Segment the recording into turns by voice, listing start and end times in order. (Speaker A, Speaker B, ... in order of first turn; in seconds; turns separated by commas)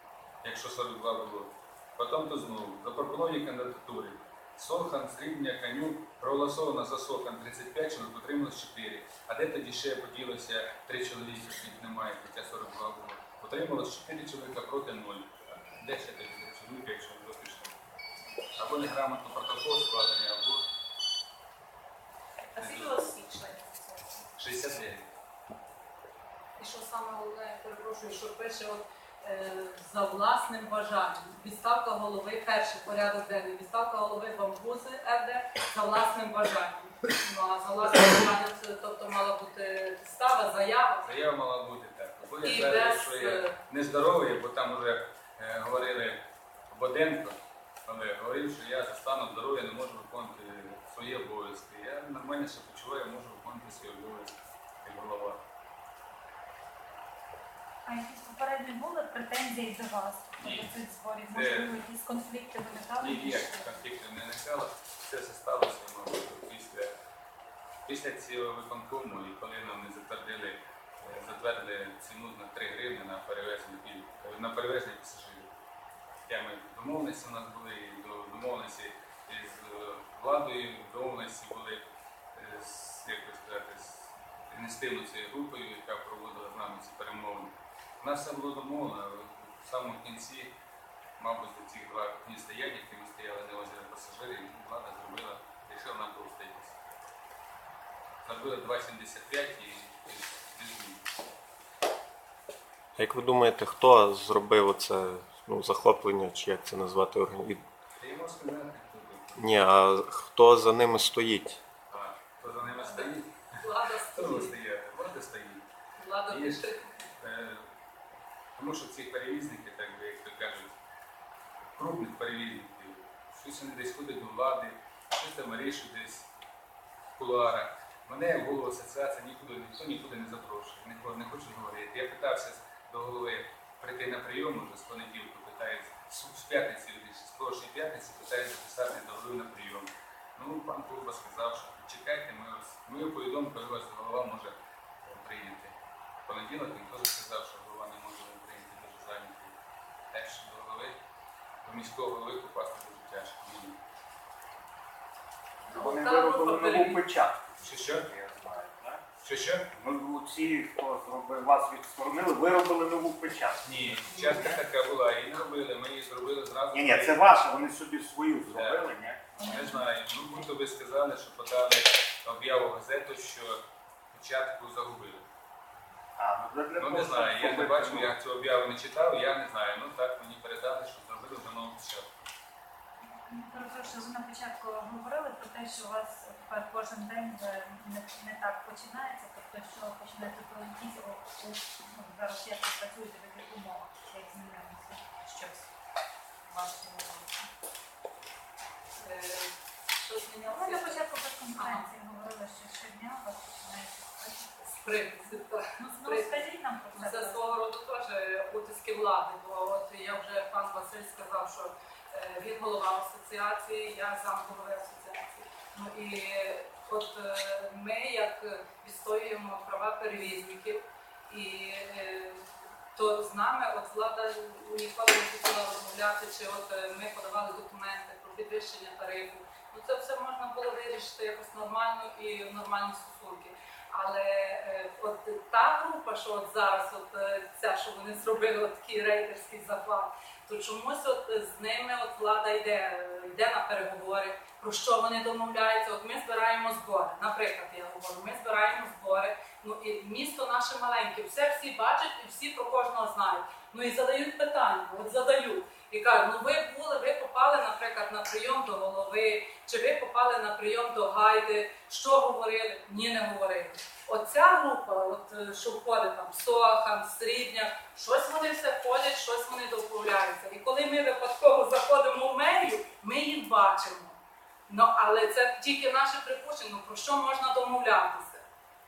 Speaker A: 0.4-17.7, Speaker A: 18.6-20.6, Speaker A: 22.6-23.1, Speaker B: 22.6-24.1, Speaker A: 24.4-25.1, Speaker B: 26.6-41.1, Speaker A: 41.0-55.4, Speaker B: 42.4-43.5, Speaker C: 57.8-63.8, Speaker A: 60.4-60.7, Speaker A: 61.3-61.7, Speaker A: 63.0-66.9, Speaker A: 67.8-75.5, Speaker A: 76.3-90.5, Speaker A: 91.2-96.8, Speaker A: 98.2-101.0, Speaker D: 103.0-107.6, Speaker A: 108.0-109.6, Speaker D: 109.4-111.6, Speaker A: 111.9-113.6, Speaker B: 112.6-114.5, Speaker A: 114.1-115.6, Speaker B: 116.0-116.9, Speaker A: 116.3-116.7, Speaker A: 117.2-117.7, Speaker A: 118.5-120.7, Speaker A: 121.8-126.3, Speaker A: 127.2-149.5, Speaker A: 150.1-150.9, Speaker A: 151.6-153.8, Speaker B: 155.7-157.0, Speaker E: 155.7-159.0, Speaker A: 157.6-158.1, Speaker A: 159.2-159.7, Speaker E: 159.7-164.5, Speaker A: 163.6-167.2, Speaker E: 166.7-169.3, Speaker A: 168.4-175.2, Speaker C: 169.3-169.8, Speaker E: 176.2-178.1, Speaker A: 176.8-182.3, Speaker C: 183.1-195.7, Speaker C: 196.5-197.5, Speaker B: 199.0-201.8, Speaker C: 200.4-207.6, Speaker B: 204.8-274.2, Speaker B: 274.7-278.4